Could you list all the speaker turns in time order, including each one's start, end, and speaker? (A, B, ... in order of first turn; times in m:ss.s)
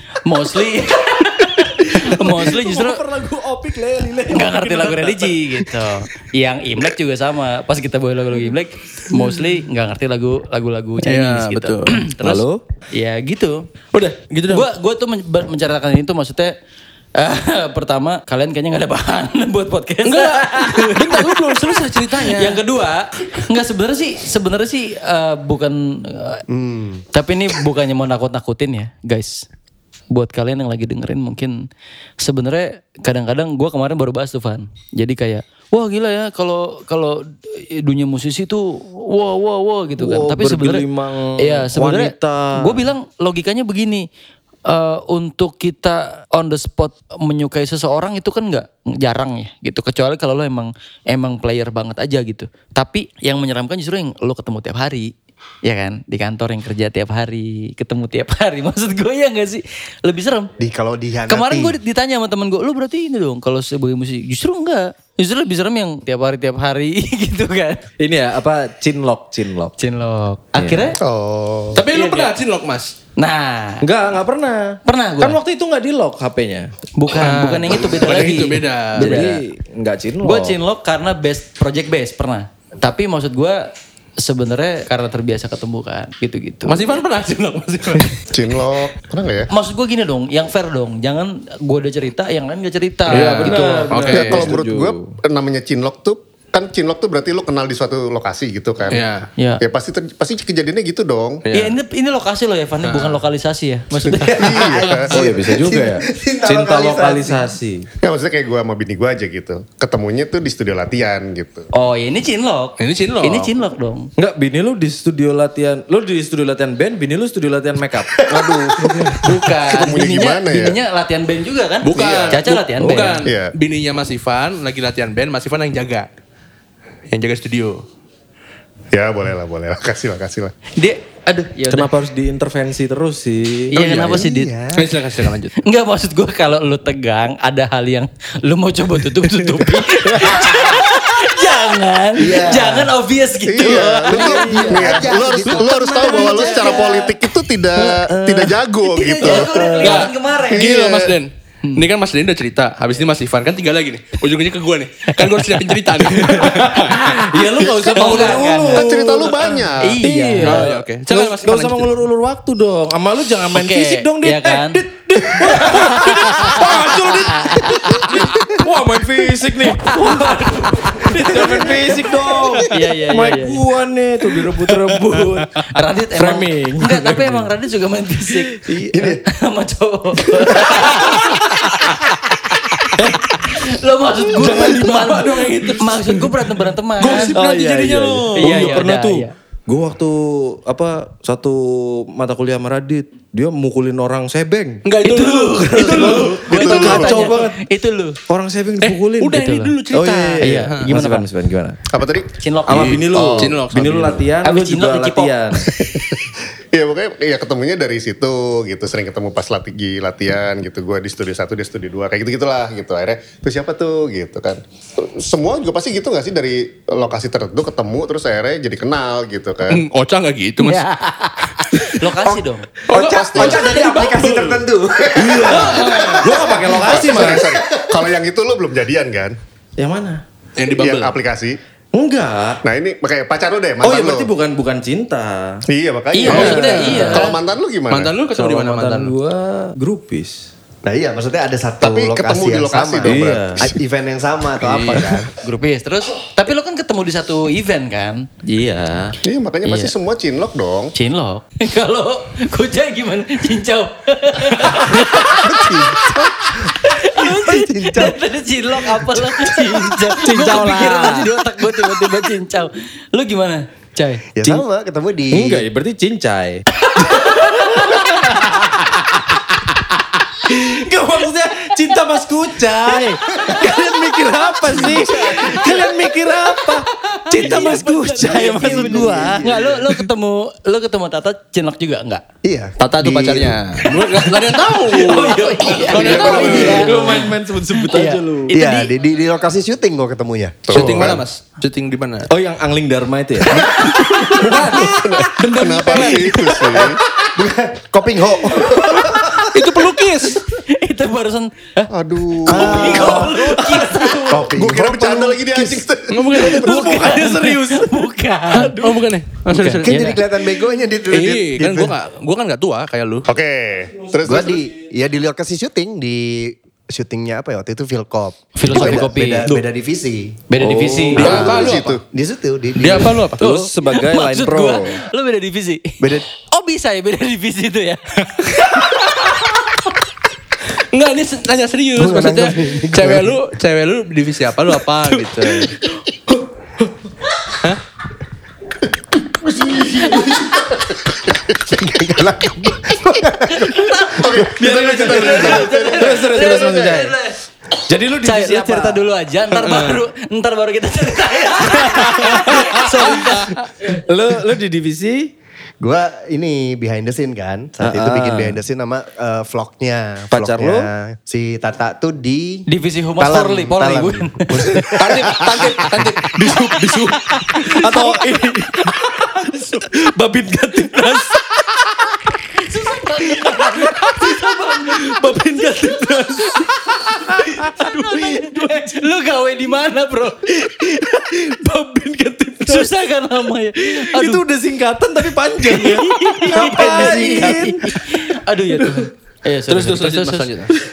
0:00.2-0:03.0 A
0:01.9-0:05.8 B
0:04.3-0:13.6 A
0:11.0-0:12.1 C
0:12.2-0:12.6 B
0:13.9-0:14.7 C
0:14.5-0:16.5 A
0:17.2-0:26.4 A
0:20.0-0:22.6 C
0:26.5-0:27.0 D
0:27.1-0:29.5 A
0:30.1-0:31.6 A
0:32.2-0:44.1 A
0:40.0-0:42.9 B
0:44.7-0:55.1 A
0:55.6-1:00.5 A
1:00.6-1:01.8 D
1:01.3-1:07.9 A
1:08.0-1:09.7 B
1:09.8-1:11.0 A
1:10.6-1:11.0 B
1:11.0-1:11.8 E
1:11.7-1:12.9 C
1:11.9-1:12.3 A
1:13.2-1:13.9 A
1:13.8-1:16.7 B
1:14.8-1:15.4 A
1:17.0-1:19.4 A
1:17.2-1:19.3 C
1:19.0-1:20.6 B
1:20.2-1:23.7 A
1:24.2-1:26.9 A
1:26.6-1:28.2 C
1:28.3-1:29.5 E
1:29.5-1:33.9 A
1:33.1-1:34.5 C
1:33.1-1:35.2 B
1:34.1-1:39.0 E
1:38.9-1:39.3 C
1:39.4-1:39.6 A
1:39.6-1:41.4 E
1:41.5-1:41.8 C
1:41.5-1:44.9 A
1:42.8-1:43.2 C
1:44.2-1:47.6 D
1:44.3-1:45.2 E
1:45.1-1:47.9 B
1:48.0-1:51.7 E
1:51.7-1:54.1 A
1:52.8-1:53.5 C
1:54.2-1:59.2 B
1:58.3-2:00.8 E
1:59.1-2:03.2 A
2:01.8-2:06.1 C
2:01.9-2:02.4 E
2:02.8-2:03.2 B
2:03.2-2:03.5 E
2:07.1-2:07.8 C
2:08.9-2:10.5 E
2:10.8-2:11.9 A
2:11.7-2:14.1 B
2:13.7-2:14.5 A
2:13.8-2:14.2 C
2:14.0-2:14.9 D
2:14.7-2:15.5 C
2:15.6-2:27.1 A
2:22.2-2:23.0 D
2:23.5-2:31.2 E
2:23.6-2:26.9 D
2:24.3-2:24.7 B
2:27.8-2:28.5 B
2:28.8-2:30.7 A
2:29.6-2:37.1 C
2:36.1-2:55.6 B
2:36.2-2:39.0 A
2:37.6-2:40.0 E
2:39.8-2:40.8 A
2:40.4-2:42.0 C
2:43.5-2:48.5 A
2:49.8-2:53.6 A
2:55.7-3:07.4 A
2:56.2-2:57.5 B
2:58.3-2:59.1 B
2:58.9-2:59.2 D
3:04.3-3:06.4 C
3:07.0-3:08.9 C
3:07.0-3:14.8 B
3:08.4-3:09.3 A
3:14.8-3:16.7 C
3:15.0-3:18.2 A
3:15.8-3:17.6 B
3:16.5-3:17.3 E
3:18.3-3:21.8 B
3:18.8-3:20.9 C
3:19.3-3:19.7 A
3:20.4-3:21.3 A
3:21.9-3:22.3 E
3:22.4-3:23.2 A
3:22.7-3:25.7 B
3:22.7-3:24.3 C
3:24.4-3:25.3 A
3:25.8-3:26.1 E
3:26.7-3:39.8 E
3:39.7-3:40.9 C
3:40.6-3:42.7 A
3:42.2-3:48.1 D
3:42.9-3:44.7 C
3:42.9-3:43.8 E
3:45.2-3:47.5 B
3:45.2-3:46.5 C
3:46.7-3:49.4 E
3:49.8-3:50.2 B
3:50.6-3:51.2 C
3:50.7-3:51.6 E
3:51.9-3:52.6 B
3:52.6-3:54.3 E
3:53.8-3:55.6 B
3:55.7-3:58.1 E
3:56.1-3:57.4 A
3:56.3-3:57.2 B
3:56.3-3:59.1 C
3:58.3-4:00.5 B
4:00.8-4:05.3 D
4:01.8-4:03.7 E
4:03.0-4:03.7 B
4:04.6-4:05.2 C
4:05.4-4:08.3 A
4:08.4-4:09.2 B
4:09.2-4:10.9 E
4:09.6-4:09.9 A
4:11.0-4:24.3 A
4:15.0-4:18.2 D
4:19.0-4:19.2 D
4:19.7-4:21.3 B
4:20.5-4:21.2 D
4:24.4-4:25.7 D
4:25.3-4:39.5 B
4:26.8-4:28.8 A
4:34.8-4:35.9 A
4:34.9-4:35.8 D
4:37.3-4:42.2 A
4:38.3-4:39.9 D
4:42.4-4:43.6 D
4:42.8-4:46.9 C
4:44.9-4:48.9 A
4:45.9-4:46.8 E
4:46.0-4:46.8 D
4:46.0-4:48.5 B
4:48.5-4:51.2 D
4:50.7-4:51.2 E
4:50.7-4:52.3 C
4:52.3-4:53.6 B
4:53.6-4:56.3 C
4:53.8-4:56.4 A
4:54.4-4:57.0 E
4:56.7-4:59.6 D
4:59.2-5:00.4 C
5:00.5-5:01.9 A
5:01.9-5:03.1 E
5:02.4-5:04.5 A
5:02.5-5:05.9 D
5:02.8-5:04.5 B
5:04.5-5:06.9 E
5:06.1-5:07.3 C
5:06.4-5:10.2 A
5:06.5-5:08.1 B
5:08.5-5:10.1 C
5:09.8-5:12.0 D
5:11.1-5:13.3 C
5:13.3-5:14.7 E
5:14.2-5:20.4 D
5:18.6-5:19.6 A
5:20.5-5:21.3 A
5:20.6-5:21.5 B
5:21.2-5:22.0 C
5:21.2-5:22.0 E
5:21.2-5:23.2 D
5:22.8-5:23.7 C
5:23.3-5:25.0 B
5:23.5-5:28.8 A
5:26.0-5:26.3 D
5:30.9-5:35.8 C
5:32.0-5:33.4 D
5:35.0-5:35.8 A
5:39.6-5:40.6 D
5:39.7-5:40.8 A
5:41.7-5:45.5 D
5:43.5-5:44.4 A
5:44.1-5:46.8 E
5:44.4-5:47.2 B
5:45.0-5:47.4 A
5:47.9-5:49.0 B
5:48.2-5:54.0 A
5:49.7-5:50.0 C
5:51.6-5:55.3 B
5:53.2-5:53.5 C
5:55.8-6:02.7 D
5:57.8-5:58.6 B
6:00.3-6:00.9 B
6:02.7-6:05.0 A
6:03.2-6:05.8 D
6:03.3-6:04.2 B
6:05.0-6:07.2 C
6:06.4-6:11.3 B
6:06.5-6:09.8 A
6:10.7-6:11.4 A
6:12.3-6:20.8 A
6:13.3-6:19.0 B
6:20.6-6:22.9 B
6:22.5-6:24.4 A
6:23.8-6:29.1 B
6:25.6-6:30.5 A
6:26.5-6:27.7 D
6:29.7-6:30.8 C